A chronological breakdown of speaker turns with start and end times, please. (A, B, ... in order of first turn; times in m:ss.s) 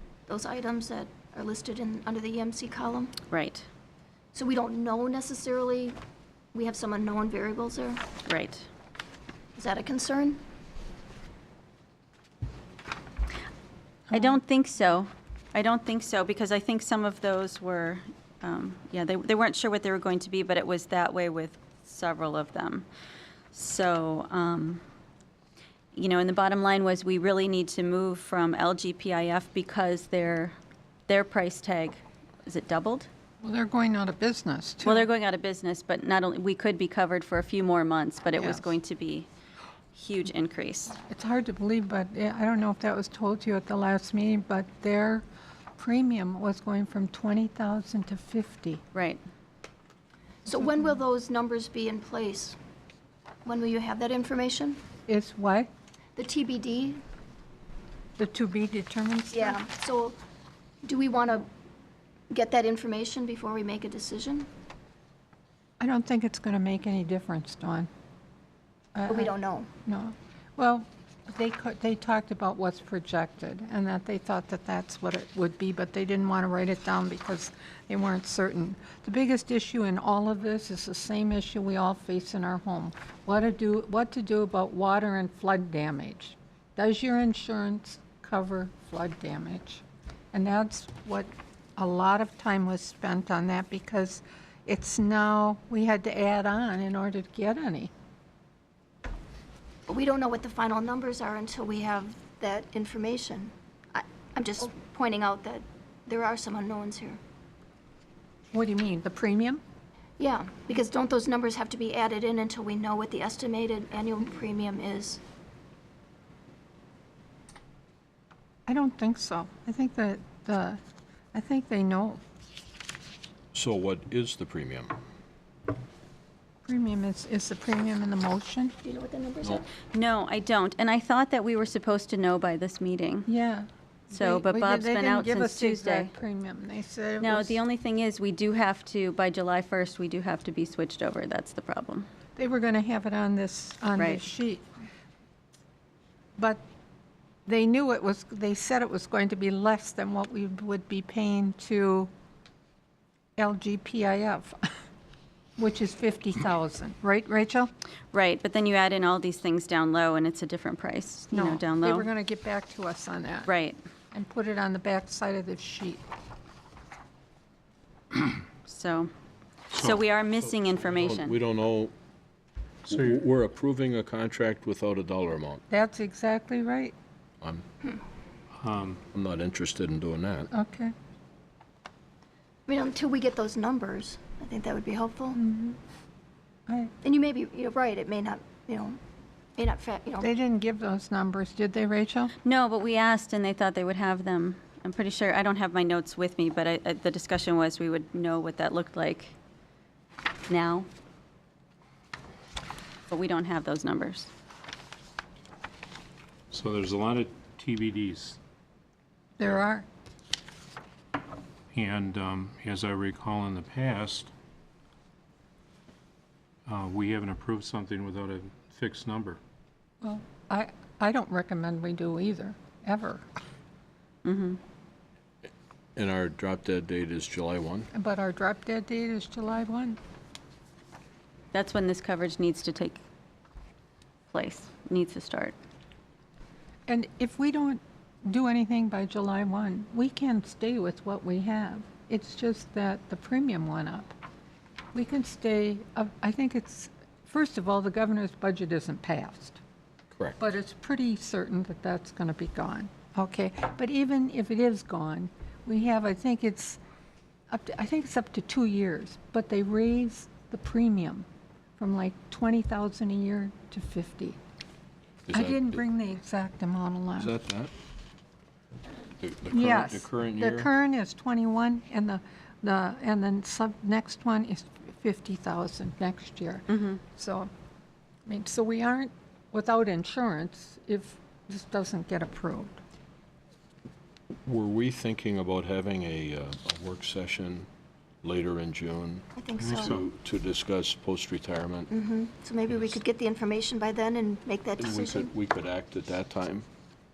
0:00.3-0:03.2 A
0:03.3-0:03.6 B
0:04.3-0:06.0 A
0:06.5-0:08.0 A
0:08.2-0:08.6 B
0:09.6-0:10.4 A
0:14.1-0:14.4 C
0:14.1-0:22.9 B
0:23.5-0:24.8 B
0:25.9-0:30.5 B
0:31.1-0:33.1 B
0:33.4-0:35.1 C
0:34.8-0:39.3 B
0:38.3-0:38.7 C
0:39.9-0:41.0 B
0:41.1-0:45.2 C
0:45.8-0:48.8 C
0:48.9-0:49.2 B
0:50.4-0:52.6 A
0:53.4-0:54.8 A
0:55.1-0:55.7 C
0:56.2-0:57.0 A
0:58.2-0:59.6 C
0:59.3-1:00.2 A
1:00.8-1:01.5 A
1:02.3-1:04.5 A
1:05.8-1:07.9 C
1:08.9-1:09.3 C
1:09.1-1:09.7 A
1:09.8-1:37.9 C
1:39.9-1:47.2 A
1:48.5-1:49.6 C
1:50.2-1:55.2 A
1:58.7-2:00.8 C
2:01.3-2:02.2 C
2:03.5-2:04.9 D
2:06.6-2:08.7 C
2:08.8-2:09.7 A
2:09.9-2:13.3 B
2:13.2-2:17.6 C
2:14.1-2:16.1 B
2:17.2-2:22.1 B
2:22.4-2:24.6 C
2:24.0-2:24.2 B
2:27.4-2:32.1 C
2:33.4-2:34.6 C
2:35.6-2:37.7 C
2:38.1-2:42.1 B
2:41.3-2:43.5 C
2:43.5-2:43.8 B
2:44.1-2:46.0 C
2:48.6-2:49.1 B
2:49.7-2:50.0 E
2:49.7-2:51.4 B
2:51.0-2:51.9 D
2:52.9-2:55.6 D
2:52.9-2:53.2 E
2:55.7-2:56.9 C
2:58.6-2:59.0 E
2:59.1-3:00.5 D
3:00.5-3:00.9 C
3:02.7-3:05.4 A
3:05.3-3:05.8 C
3:07.0-3:09.0 A
3:09.6-3:10.3 A
3:10.2-3:12.3 C
3:12.4-3:19.3 B
3:20.5-3:20.9 B
3:23.1-3:24.3 B
3:26.5-3:28.4 E
3:29.4-3:29.8 C
3:31.7-3:34.3 E
3:36.6-3:39.4 E
3:40.0-3:43.2 C
3:44.2-3:44.6 B
3:46.0-3:47.9 D
3:47.9-3:50.0 C
3:51.5-3:53.0 B
3:54.3-3:55.5 B
3:56.9-4:04.1 C
4:04.9-4:09.6 C
4:10.1-4:10.4 D
4:10.4-4:16.8 C
4:17.5-4:21.2 C
4:21.8-4:24.4 C
4:25.2-4:25.8 D
4:25.3-4:27.3 C
4:27.2-4:27.7 D
4:29.2-4:30.7 D
4:29.5-4:37.5 C
4:36.7-4:37.0 B
4:38.2-4:42.8 C
4:44.4-4:47.7 D
4:48.2-4:51.9 D
4:49.4-4:50.0 A
4:49.6-4:50.0 E
4:51.9-4:55.3 A
4:54.8-4:56.6 D